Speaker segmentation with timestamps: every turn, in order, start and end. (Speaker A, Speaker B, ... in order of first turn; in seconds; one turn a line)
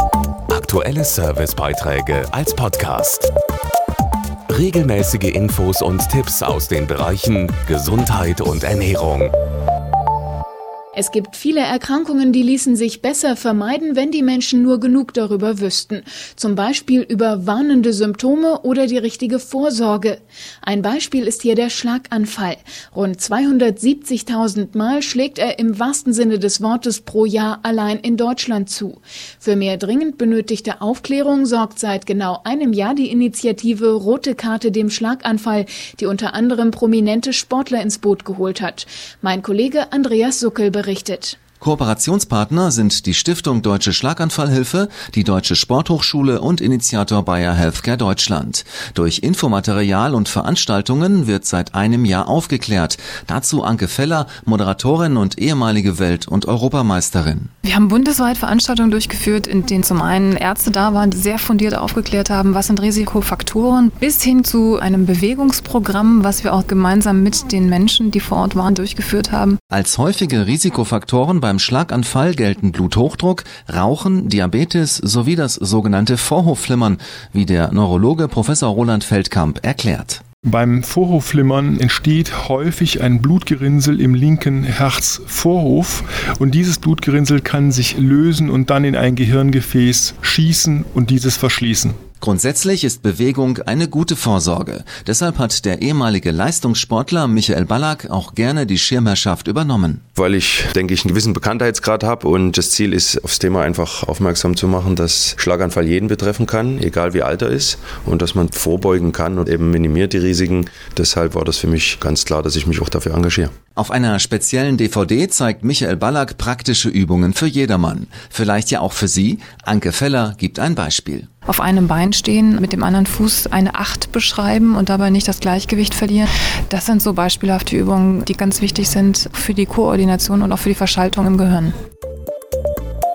Speaker A: 0.5-3.3
Speaker A: 4.5-9.3
Speaker B: 11.0-41.4
Speaker C: 41.6-57.5
Speaker D: 57.6-69.6
Speaker C: 69.7-80.2
Speaker E: 80.5-92.0
Speaker C: 92.2-100.0
Speaker F: 100.2-113.5
Speaker C: 113.8-121.3
Speaker D: 121.5-131.7